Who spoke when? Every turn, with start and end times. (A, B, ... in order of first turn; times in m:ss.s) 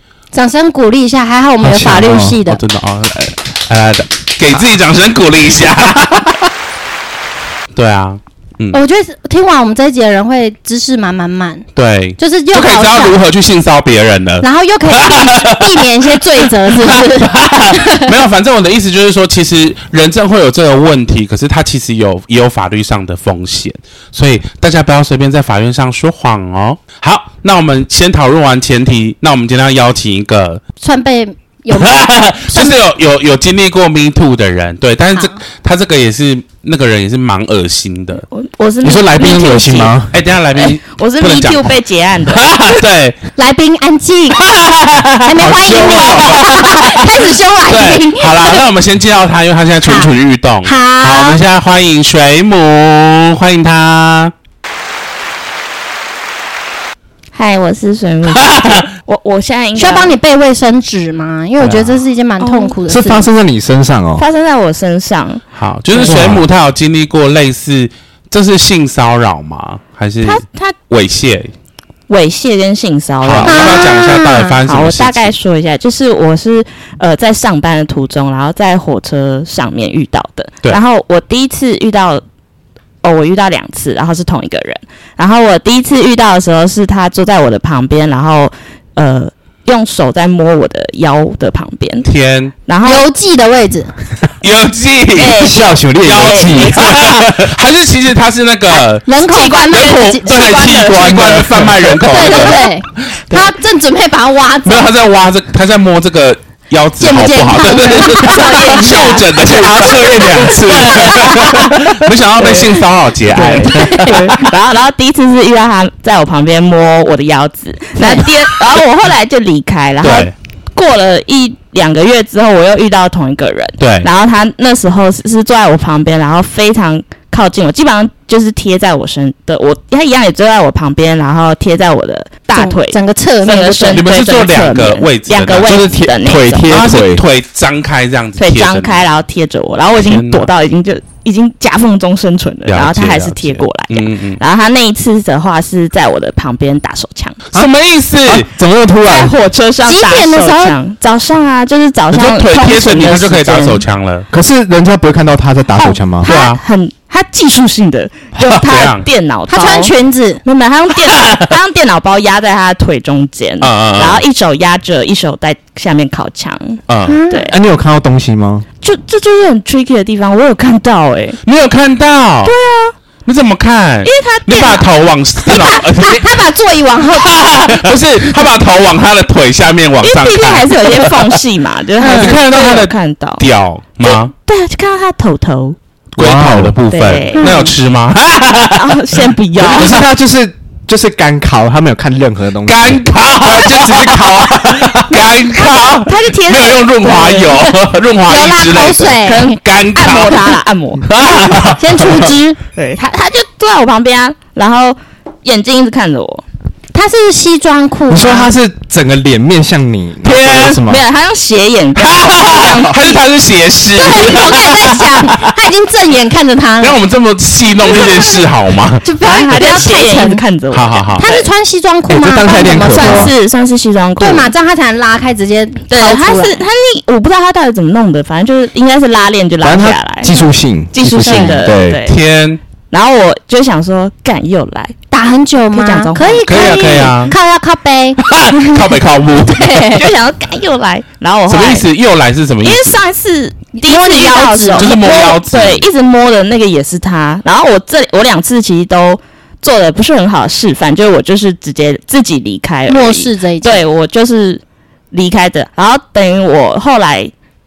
0:00.3-0:02.6 A
0:01.6-0:02.4 B
0:02.5-0:06.3 C
0:07.8-0:08.8 C
0:08.7-0:13.2 A
0:11.8-0:30.6 C
0:14.4-0:18.1 A
0:30.8-0:32.8 A
0:31.7-0:38.3 C
0:38.3-0:40.0 D
0:38.8-0:40.1 B
0:40.1-0:43.2 C
0:40.5-0:42.8 D
0:43.4-0:44.5 A
0:44.4-0:47.0 C
0:45.2-0:48.6 A
0:45.4-0:46.4 B
0:47.7-0:54.3 C
0:49.8-0:50.1 A
0:50.6-0:51.4 A
0:57.3-1:00.2 D
0:58.5-0:58.8 C
0:59.8-1:03.3 A
1:01.6-1:02.0 C
1:02.4-1:02.8 D
1:02.9-1:04.2 B
1:04.2-1:05.4 D
1:05.6-1:11.5 C
1:06.0-1:06.2 D
1:06.0-1:06.4 B
1:10.2-1:10.8 D
1:12.1-1:22.2 D
1:13.2-1:15.4 C
1:13.4-1:14.6 A
1:23.0-1:32.1 D
1:32.0-1:32.5 C
1:32.7-1:33.0 D
1:32.8-1:33.9 A
1:34.4-1:35.4 C
1:35.2-1:37.0 D
1:35.2-1:37.5 B
1:36.0-1:39.1 C
1:38.7-1:40.5 A
1:39.2-1:41.3 D
1:39.6-1:42.6 C
1:40.3-1:42.2 B
1:42.1-1:44.9 A
1:42.3-1:42.6 D
1:44.6-1:54.3 C
1:47.0-1:49.2 A
1:48.1-1:49.2 D
1:49.4-1:51.9 B
1:49.8-1:51.4 A
1:53.3-1:54.4 B
1:53.3-2:16.8 D
1:53.8-1:54.2 A
1:58.0-1:58.5 A
2:00.0-2:00.3 C
2:03.8-2:04.1 C
2:12.5-2:14.1 A
2:13.9-2:15.8 C
2:15.6-2:17.2 B
2:16.7-2:19.0 C
2:18.4-2:27.4 D
2:20.0-2:20.5 C
2:22.6-2:24.4 C
2:27.5-2:28.5 C
2:28.2-2:29.4 B
2:29.0-2:33.8 D
2:29.8-2:30.8 A
2:32.1-2:34.3 C
2:34.3-2:36.3 B
2:35.8-2:47.6 D
2:36.2-2:36.6 C
2:38.5-2:39.1 C
2:39.5-2:40.4 A
2:43.6-2:44.2 C
2:46.9-2:47.2 C
2:47.1-2:47.5 A
2:47.5-2:48.6 B
2:48.8-2:51.4 D
2:51.4-2:52.5 C
2:52.4-2:53.0 D
2:53.2-2:56.4 C
2:54.0-2:54.9 D
2:55.5-2:57.4 A
2:57.1-3:01.4 C
3:00.0-3:03.4 D
3:02.0-3:02.4 A
3:02.0-3:04.3 C
3:04.0-3:05.8 D
3:06.1-3:10.0 C
3:06.2-3:06.8 B
3:06.9-3:07.7 D
3:07.4-3:07.7 A
3:08.7-3:10.0 D
3:09.6-3:15.3 B
3:12.6-3:22.0 C
3:15.6-3:17.6 D
3:18.3-3:19.6 A
3:19.2-3:21.2 D
3:21.6-3:22.6 A
3:22.8-3:26.4 D
3:26.9-3:28.5 A
3:28.1-3:31.0 B
3:30.2-3:33.2 D
3:32.0-3:35.5 C
3:34.0-3:37.0 A
3:36.8-3:39.0 C
3:37.8-3:40.4 A
3:39.2-3:41.5 D
3:40.7-3:41.3 C
3:41.2-3:43.3 A
3:42.1-3:43.3 B
3:42.6-3:44.5 D
3:44.2-3:46.6 A
3:45.9-3:50.4 D
3:49.6-3:52.0 B
3:50.9-3:52.2 D
3:51.2-3:51.6 A
3:52.0-3:52.6 C
3:52.9-3:55.0 D
3:55.1-3:58.2 A
3:55.7-3:57.2 D
3:56.5-3:57.4 C
3:58.2-3:59.8 C
3:59.5-4:00.1 A
3:59.8-4:01.9 D
4:01.5-4:03.0 C
4:02.6-4:17.3 D
4:03.8-4:05.0 A
4:04.8-4:05.9 C
4:12.9-4:13.8 A